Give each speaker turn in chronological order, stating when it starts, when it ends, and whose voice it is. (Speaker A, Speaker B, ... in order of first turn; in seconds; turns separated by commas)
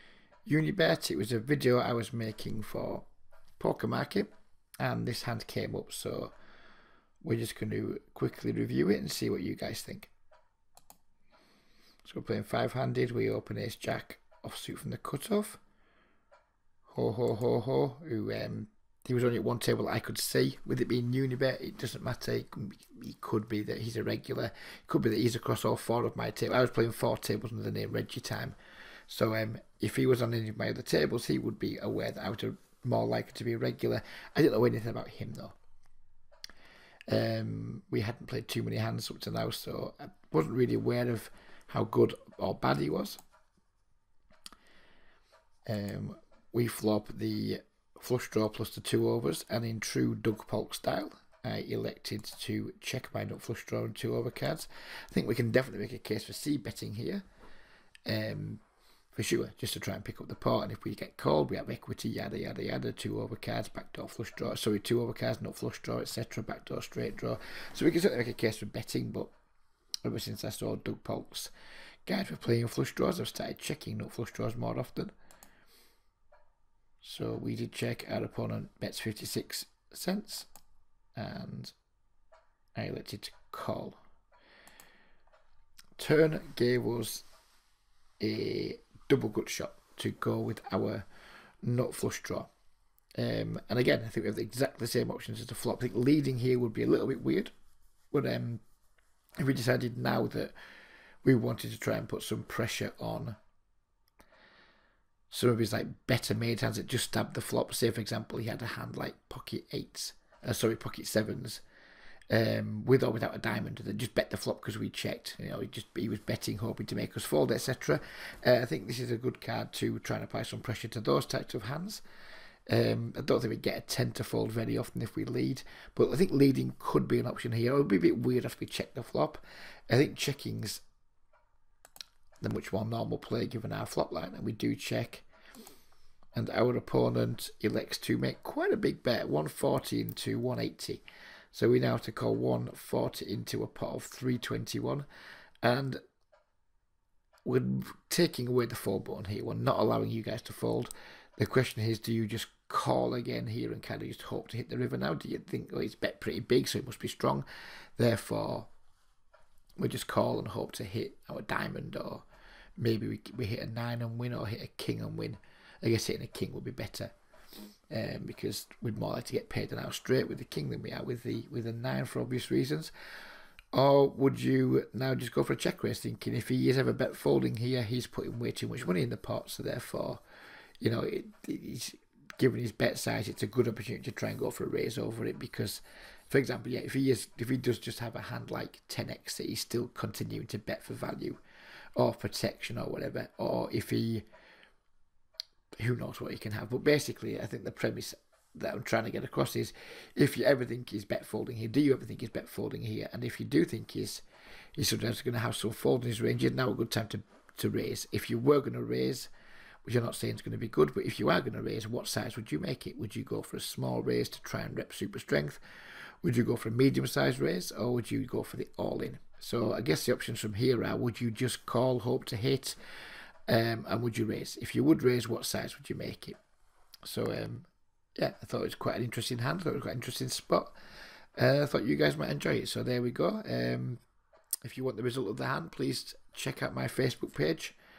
Speaker A: 0.5-3.1, Speaker A: 3.6-4.3, Speaker A: 4.8-6.3, Speaker A: 7.2-10.1, Speaker A: 12.0-15.6, Speaker A: 16.9-28.6, Speaker A: 29.1-35.5, Speaker A: 37.1-43.2, Speaker A: 45.6-57.2, Speaker A: 58.0-58.6, Speaker A: 59.1-69.3, Speaker A: 70.0-71.5, Speaker A: 72.0-75.1, Speaker A: 77.0-80.5, Speaker A: 81.2-81.7, Speaker A: 82.7-84.0, Speaker A: 86.0-87.2, Speaker A: 88.2-91.0, Speaker A: 91.6-92.5, Speaker A: 93.2-97.5, Speaker A: 98.1-98.6, Speaker A: 99.4-100.5, Speaker A: 101.2-103.4, Speaker A: 105.3-111.6, Speaker A: 112.3-122.0, Speaker A: 122.7-130.8, Speaker A: 132.4-135.2, Speaker A: 136.3-145.1, Speaker A: 145.6-146.0, Speaker A: 147.4-158.7, Speaker A: 159.8-162.2, Speaker A: 162.8-167.1, Speaker A: 167.9-172.9, Speaker A: 173.7-180.2, Speaker A: 180.8-191.4, Speaker A: 191.9-194.2, Speaker A: 195.8-204.2, Speaker A: 204.7-209.3, Speaker A: 209.8-215.6, Speaker A: 216.2-222.8, Speaker A: 223.5-226.4, Speaker A: 227.0-230.8, Speaker A: 231.3-234.0, Speaker A: 234.6-237.8